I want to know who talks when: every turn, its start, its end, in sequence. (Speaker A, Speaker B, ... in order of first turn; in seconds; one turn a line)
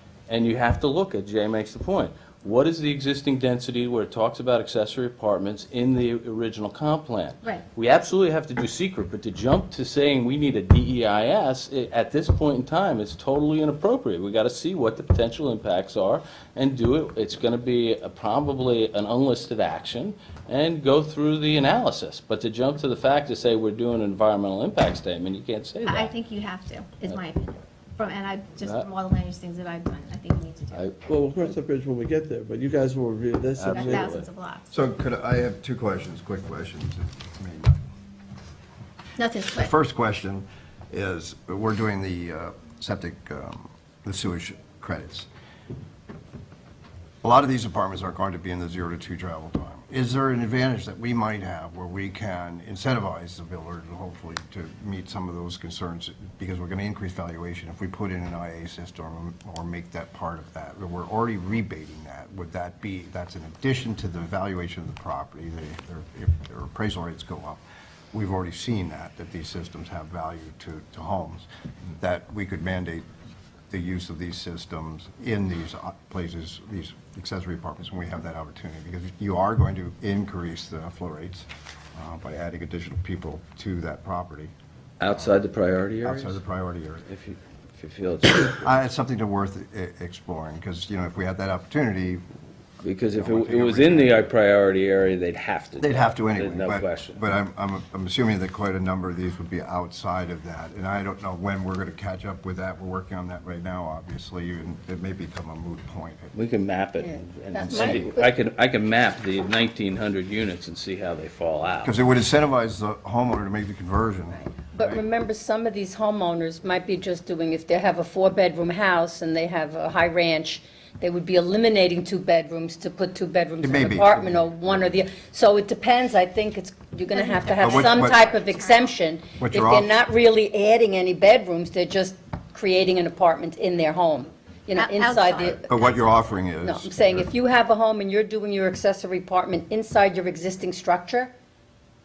Speaker A: 0.3-26.1
Speaker B: 25.8-30.9
Speaker A: 28.6-28.9
Speaker A: 30.7-31.5
Speaker C: 31.1-34.1
Speaker A: 33.6-34.3
Speaker B: 33.7-34.7
Speaker D: 34.7-37.8
Speaker B: 39.2-39.7
Speaker D: 39.5-45.3
Speaker D: 47.2-67.6
Speaker D: 68.1-71.5
Speaker D: 72.0-73.0
Speaker D: 73.7-84.5
Speaker A: 85.0-86.4
Speaker D: 85.1-85.4
Speaker D: 86.0-87.1
Speaker A: 87.1-88.7
Speaker D: 88.5-92.2
Speaker A: 92.8-97.3
Speaker D: 93.1-94.3
Speaker D: 95.8-106.3
Speaker A: 106.3-112.0
Speaker E: 107.0-108.3
Speaker D: 111.8-115.0
Speaker E: 114.7-135.7
Speaker D: 123.6-125.0
Speaker B: 127.1-129.0
Speaker D: 127.6-128.3
Speaker D: 129.4-129.9
Speaker B: 134.8-135.7
Speaker D: 135.6-137.3
Speaker E: 136.6-141.3